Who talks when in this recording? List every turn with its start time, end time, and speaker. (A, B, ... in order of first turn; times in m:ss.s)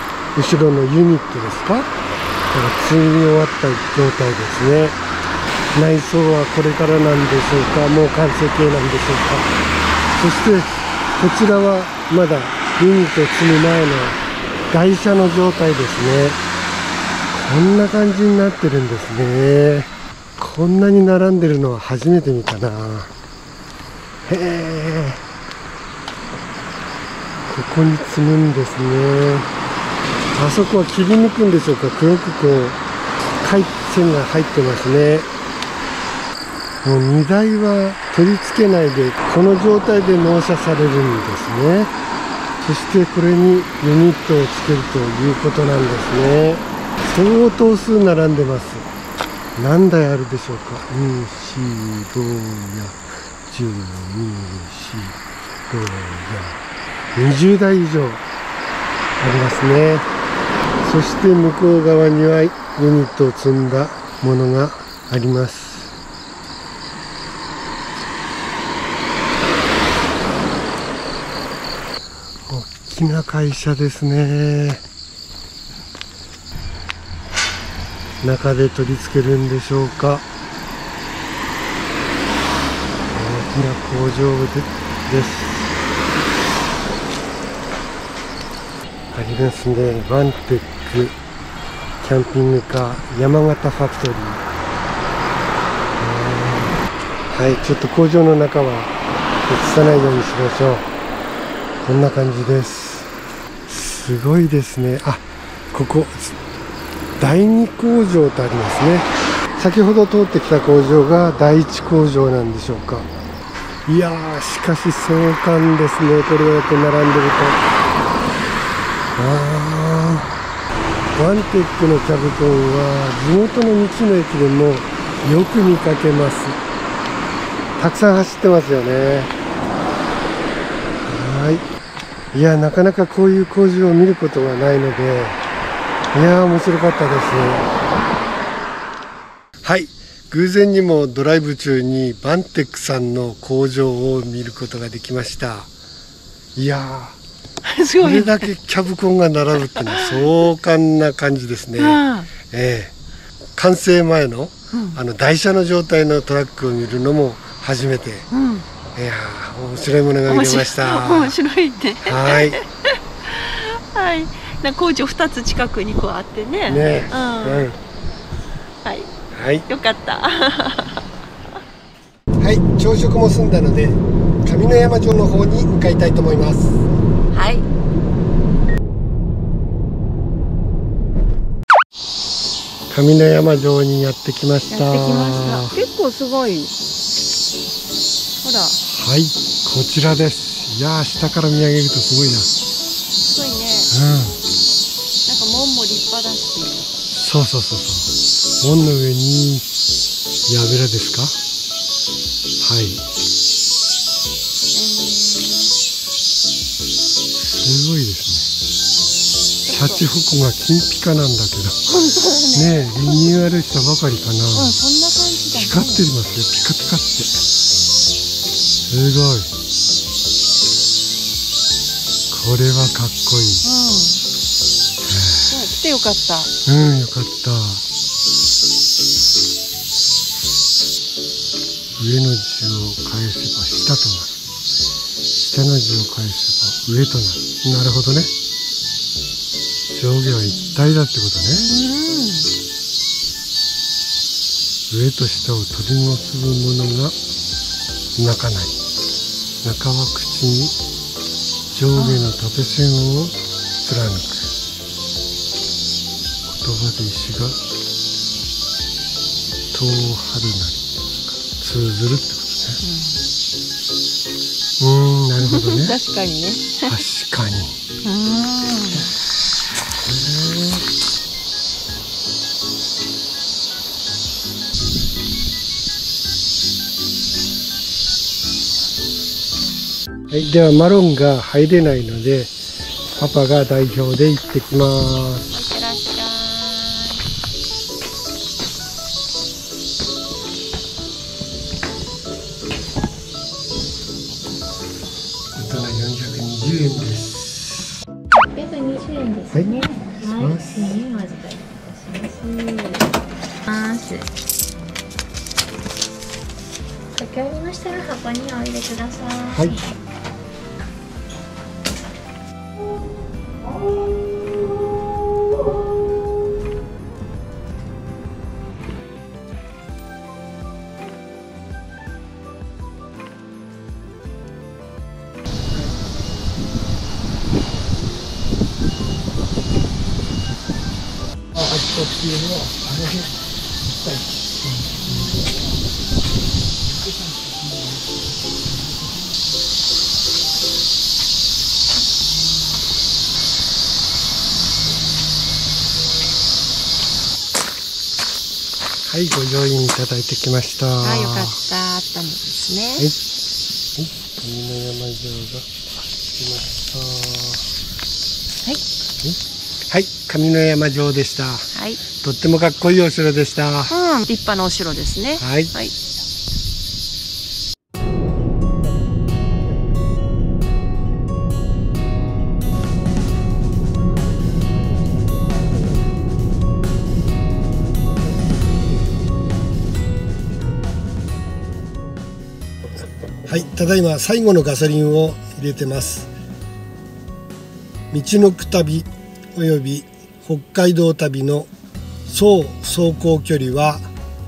0:00.3-0:01.9 A
0:02.5-0:05.0 A
0:05.7-0:09.5 A
0:10.2-0:14.2 A
0:14.7-0:16.4 A
0:17.3-0:23.1 A
0:24.2-0:25.2 A
0:27.5-0:29.5 A
0:30.3-0:32.8 A
0:33.4-0:35.3 A
0:36.8-0:41.9 A
0:42.6-0:48.9 A
0:49.6-0:56.6 A
0:57.1-0:58.2 A
0:59.2-1:00.1 A
1:00.8-1:05.9 A
1:12.5-1:14.8 A
1:18.2-1:20.2 A
1:23.1-1:25.8 A
1:29.1-1:31.2 A
1:32.0-1:34.4 A
1:36.0-1:36.8 A
1:37.3-1:38.9 A
1:39.5-1:40.9 A
1:41.8-1:43.1 A
1:43.7-1:46.4 A
1:47.2-1:53.1 A
1:53.8-1:57.6 A
1:59.2-2:00.3 A
2:01.2-2:06.6 A
2:07.8-2:09.3 A
2:11.1-2:11.6 A
2:12.3-2:15.4 A
2:16.1-2:17.7 A
2:19.6-2:25.7 A
2:26.6-2:27.2 A
2:27.6-2:28.5 B
2:28.0-2:32.9 A
2:29.6-2:30.3 B
2:31.8-2:32.3 B
2:33.6-2:38.3 A
2:34.7-2:35.0 B
2:38.3-2:38.7 B
2:38.9-2:41.4 A
2:40.2-2:47.7 B
2:42.0-2:42.6 A
2:46.6-2:47.8 A
2:48.8-2:49.1 B
2:49.3-2:49.6 A
2:49.7-2:51.0 B
2:52.4-2:56.9 A
2:57.3-2:57.6 B
3:02.9-3:05.8 A
3:04.7-3:06.7 B
3:08.4-3:08.8 B
3:08.8-3:12.5 A
3:13.2-3:13.9 B
3:13.9-3:14.4 A
3:15.2-3:16.9 B
3:17.1-3:19.6 A
3:20.5-3:21.4 A
3:22.6-3:23.0 A
3:24.7-3:25.7 B
3:27.4-3:28.5 A
3:29.6-3:30.1 B
3:29.6-3:31.8 A
3:31.9-3:33.5 B
3:32.5-3:34.8 A
3:34.5-3:36.1 B
3:35.5-3:37.4 A
3:38.9-3:39.5 A
3:42.3-3:43.7 A
3:43.6-3:44.2 B
3:45.0-3:45.7 A
3:45.5-3:46.5 B
3:46.6-3:47.8 A
3:52.0-3:54.3 A
3:55.4-3:58.3 A
3:59.9-4:01.7 A
4:00.3-4:00.9 B
4:01.5-4:02.5 B
4:04.9-4:07.2 A
4:08.2-4:08.7 A
4:09.6-4:10.7 A
4:11.7-4:14.5 A
4:11.9-4:12.3 B
4:16.5-4:17.6 A
4:19.7-4:22.8 A
4:22.8-4:23.2 B
4:24.8-4:26.0 A
4:25.4-4:27.0 B
4:26.8-4:27.8 A
4:28.0-4:29.1 B
4:30.0-4:30.8 A
4:40.3-4:42.5 A
4:43.2-4:45.5 A
4:45.5-4:47.2 B
4:55.5-4:57.9 A
4:58.5-5:01.6 B
4:58.6-4:59.5 C
4:59.5-5:00.9 A
5:00.1-5:03.0 C
5:02.2-5:03.0 B
5:03.7-5:04.2 B
5:03.7-5:04.2 C
5:07.2-5:09.9 B
5:07.3-5:09.4 C
5:32.1-5:32.5 A
5:49.1-5:51.6 A
5:51.0-5:53.1 B
5:54.0-5:57.6 A
5:59.9-6:04.0 A
6:01.7-6:02.0 B
6:03.9-6:05.9 B
6:05.4-6:05.7 A
6:23.4-6:26.3 A
6:28.1-6:31.7 A
6:32.3-6:34.1 A